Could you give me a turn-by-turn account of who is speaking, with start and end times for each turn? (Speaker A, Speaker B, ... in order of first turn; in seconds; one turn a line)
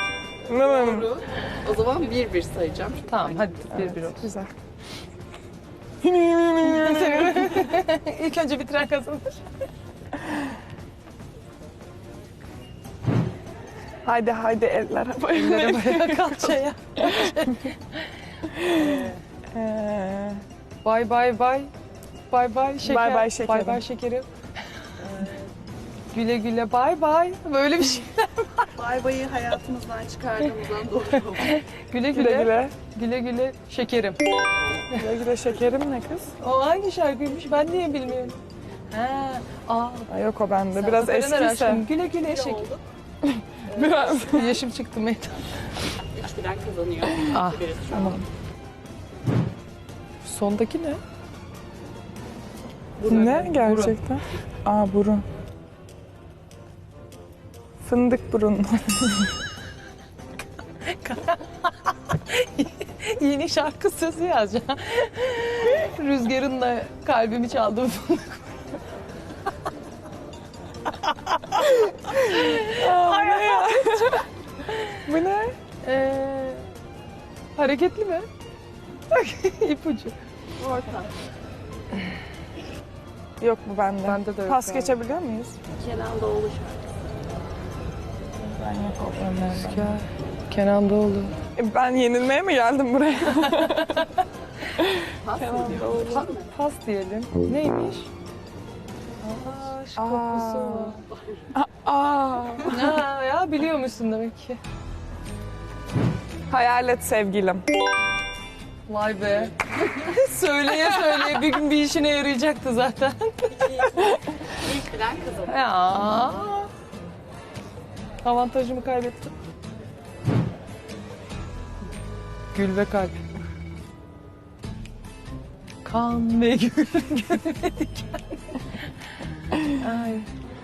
Speaker A: 0.4-1.2
Speaker B: 0.6-3.6
Speaker C: 3.0-4.3
Speaker A: 3.7-4.5
Speaker A: 6.0-7.7
Speaker C: 6.6-9.4
Speaker A: 14.0-17.5
Speaker C: 15.3-19.2
Speaker A: 18.5-20.4
Speaker C: 20.8-21.7
Speaker C: 22.3-24.3
Speaker A: 22.8-23.8
Speaker C: 24.8-25.3
Speaker C: 26.1-28.7
Speaker B: 28.7-31.6
Speaker C: 31.4-34.2
Speaker A: 32.1-32.7
Speaker A: 34.9-36.3
Speaker C: 36.4-40.1
Speaker A: 40.1-41.8
Speaker C: 40.7-42.7
Speaker B: 42.4-42.8
Speaker A: 43.2-44.6
Speaker B: 43.8-44.1
Speaker C: 43.8-45.8
Speaker B: 46.1-48.1
Speaker C: 47.2-47.8
Speaker A: 47.9-48.3
Speaker C: 50.2-51.0
Speaker C: 53.0-54.0
Speaker A: 53.0-55.2
Speaker A: 57.8-59.3
Speaker C: 60.8-68.6
Speaker C: 71.0-75.0
Speaker A: 72.3-74.2
Speaker A: 75.0-75.5
Speaker C: 75.8-76.7
Speaker C: 77.5-78.3
Speaker C: 79.1-80.2
Speaker B: 80.6-81.1
Speaker A: 83.4-85.6
Speaker C: 84.0-85.0
Speaker B: 85.7-86.9
Speaker A: 88.4-90.0
Speaker C: 89.4-91.4
Speaker A: 91.5-94.1
Speaker C: 93.3-94.1
Speaker A: 94.7-96.3
Speaker B: 95.2-96.4
Speaker C: 96.0-98.1
Speaker C: 99.2-101.0
Speaker A: 100.0-101.0
Speaker A: 101.5-103.0
Speaker C: 102.6-104.6
Speaker A: 106.5-107.6
Speaker C: 108.9-114.1
Speaker B: 114.5-115.5
Speaker C: 115.4-116.7
Speaker C: 118.2-119.3
Speaker C: 122.5-123.2
Speaker C: 125.8-128.1
Speaker C: 129.5-130.3